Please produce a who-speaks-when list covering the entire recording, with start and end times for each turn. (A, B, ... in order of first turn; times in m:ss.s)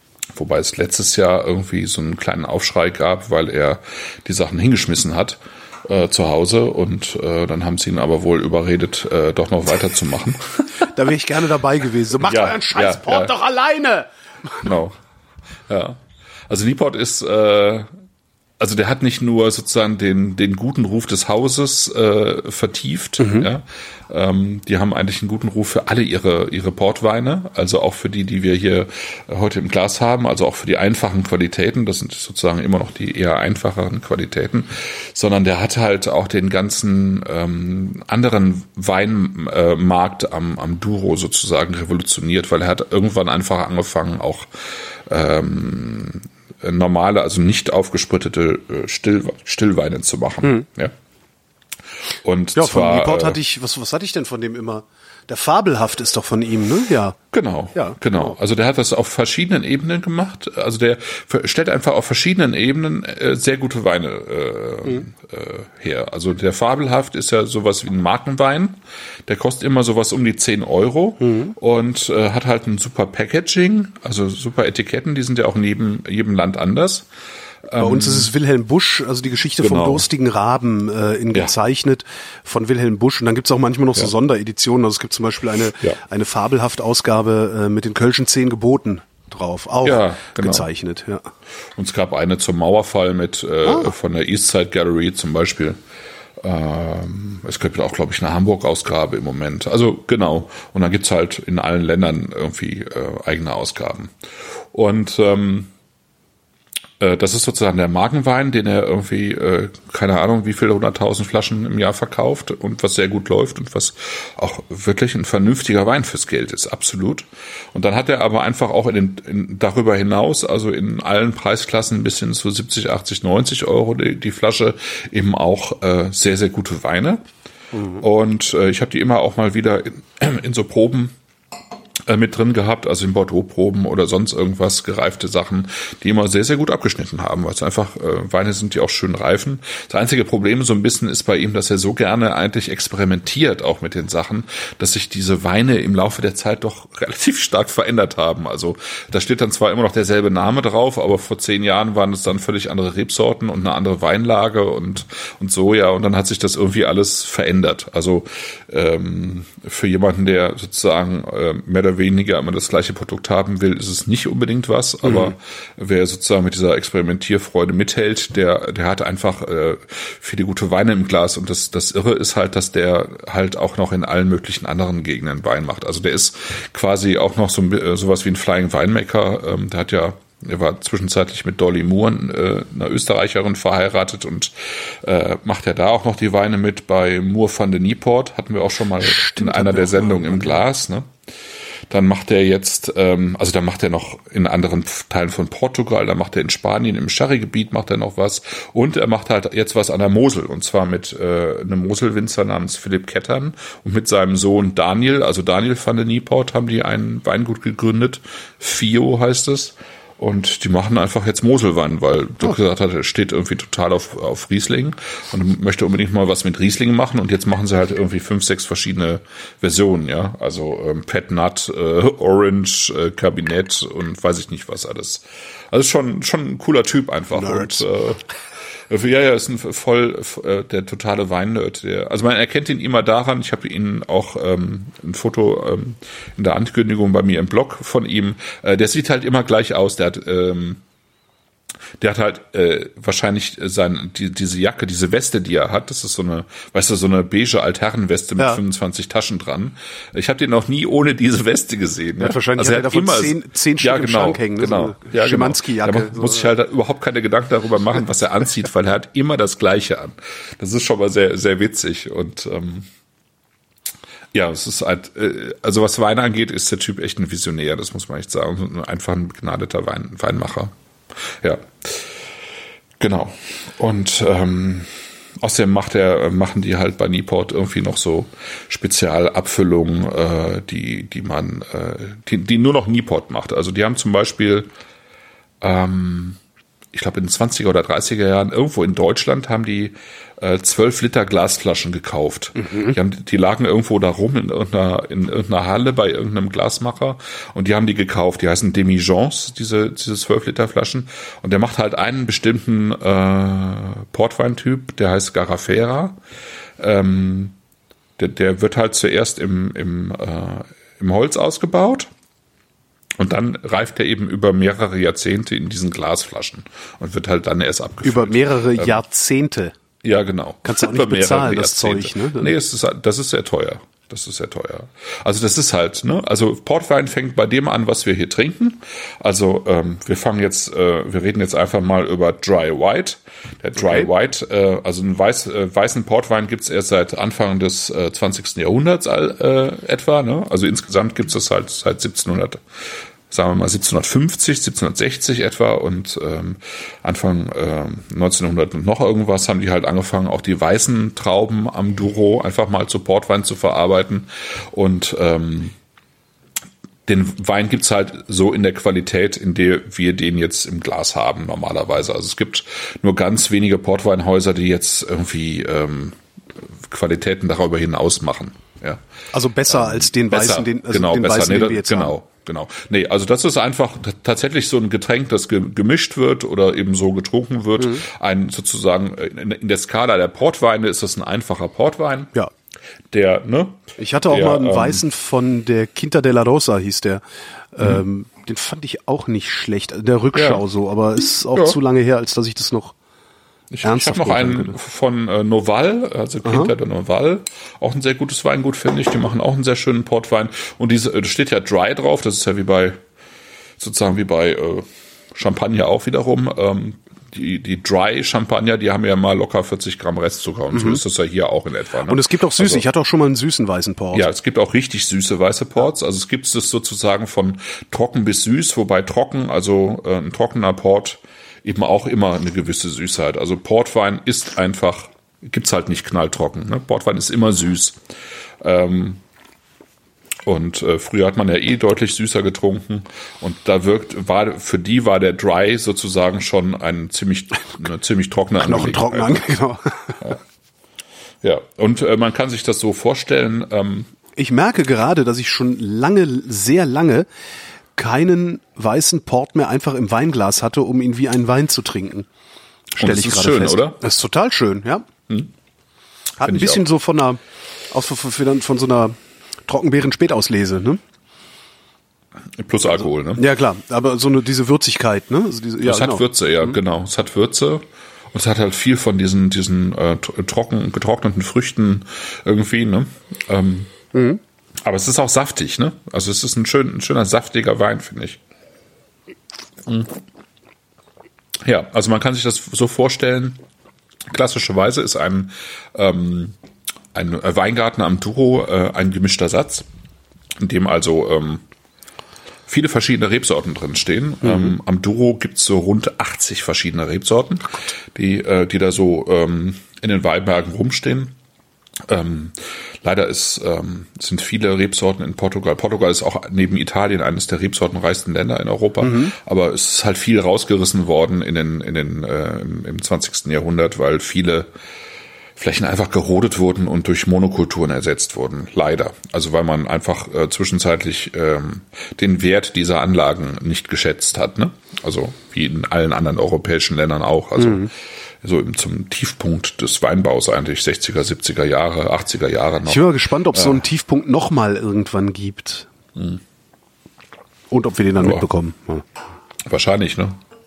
0:00.3-0:10.9 A
0:10.8-0:14.7 B
0:12.2-0:13.3 A
0:14.6-0:15.0 A
0:15.7-0:17.9 A
0:18.6-0:51.0 A
0:23.2-0:23.5 B
0:52.2-0:53.4 A
0:52.6-0:57.2 B
0:57.3-1:17.1 A
0:57.8-0:58.3 B
1:11.2-1:11.5 B
1:17.7-1:18.3 A
1:17.8-1:31.3 B
1:19.6-1:20.1 A
1:29.8-1:30.7 A
1:31.8-1:35.8 A
1:36.4-1:45.7 A
1:47.0-2:07.2 A
2:07.7-2:08.0 B
2:08.0-2:11.1 A
2:12.1-3:11.1 A
2:45.0-2:45.3 B
3:09.0-3:10.6 B
3:11.9-3:48.2 A
3:47.3-3:47.8 B
3:48.9-4:00.8 A
4:02.0-4:22.9 A
4:12.2-4:16.5 B
4:24.3-4:32.1 A
4:33.0-4:44.7 A
4:45.6-4:46.4 A
4:46.9-5:06.2 A
4:52.6-4:53.0 B
5:06.8-5:07.6 A
5:08.2-5:12.1 A
5:13.2-5:19.0 A
5:18.0-5:19.7 B
5:20.0-5:55.8 A
5:20.6-5:22.6 B
5:33.8-5:34.1 B
5:57.1-6:06.2 A
6:06.8-6:09.0 A
6:09.3-6:12.2 B
6:09.7-6:22.3 A
6:23.1-6:25.0 A
6:24.0-6:27.2 B
6:27.8-6:33.0 B
6:30.3-6:30.6 A
6:33.7-6:43.0 A
6:33.8-6:34.8 B
6:36.4-6:36.7 B
6:43.8-6:52.8 A
6:50.7-6:51.0 B
6:52.1-6:54.3 B
6:54.1-7:08.0 A
7:08.6-7:09.2 A
7:10.4-7:19.4 A
7:18.6-7:20.2 B
7:21.4-7:24.1 A
7:24.4-7:27.3 B
7:28.0-7:32.3 B
7:33.0-7:34.0 A
7:33.0-7:35.1 B
7:36.4-7:41.0 B
7:36.4-7:36.8 A
7:42.6-7:43.4 A
7:43.4-7:46.8 B
7:45.8-7:53.9 A
7:54.1-7:54.4 B
7:54.8-7:58.4 A
7:59.8-8:00.2 A
8:01.6-8:03.6 A
8:04.3-8:06.6 A
8:07.1-8:09.9 A
8:10.6-8:11.6 A
8:12.7-8:21.4 A
8:22.1-8:34.7 A
8:29.0-8:29.4 B
8:35.6-8:53.8 A
8:47.6-8:47.9 B
8:52.9-8:55.9 B
8:56.2-8:56.4 A
8:57.7-8:59.0 B
8:59.6-9:00.4 A